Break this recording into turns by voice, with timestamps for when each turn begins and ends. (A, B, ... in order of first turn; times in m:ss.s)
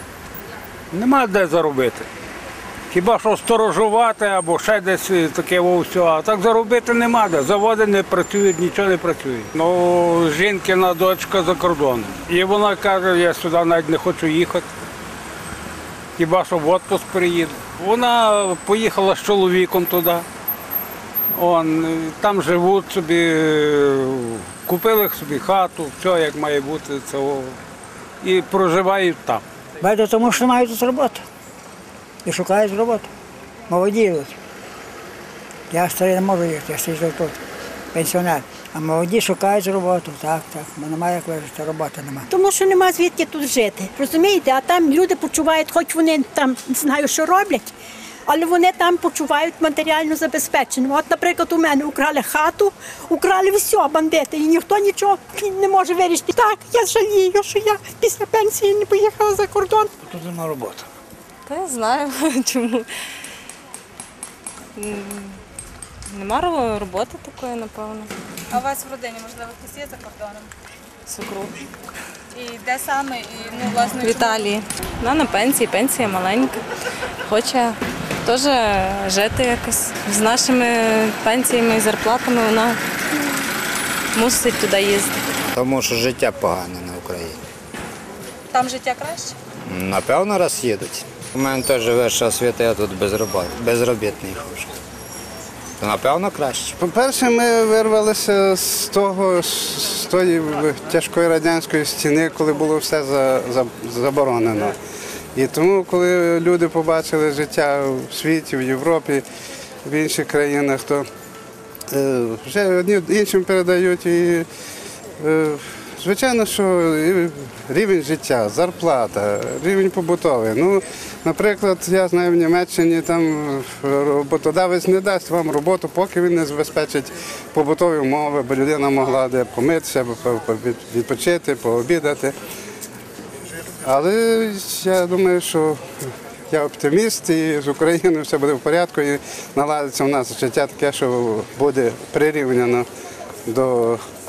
0:00.9-0:02.0 A
0:02.9-0:14.7 A
0:16.2-0:20.2 A
0:21.4-0:27.6 A
0:28.2-0:29.4 A
0:29.8-0:31.2 B
0:32.2-0:33.1 B
0:33.7-0:34.3 B
0:35.7-0:37.4 B
0:37.9-0:42.3 B
0:42.3-0:47.7 C
0:48.3-0:59.9 C
1:01.5-1:02.9 D
1:04.8-1:05.3 D
1:06.1-1:08.1 D
1:08.5-1:10.5 E
1:11.1-1:11.5 D
1:12.4-1:14.5 E
1:13.8-1:16.6 D
1:17.3-1:22.8 D
1:24.2-1:25.1 D
1:25.5-1:27.4 F
1:28.5-1:29.3 E
1:29.7-1:34.7 F
1:35.8-1:36.7 F
1:36.8-1:44.8 G
1:45.4-1:49.2 G
1:49.9-1:51.1 G
1:51.9-1:54.5 G
1:55.2-2:12.3 G
2:13.8-2:15.8 G
2:16.5-2:22.9 G
2:23.5-2:24.0 G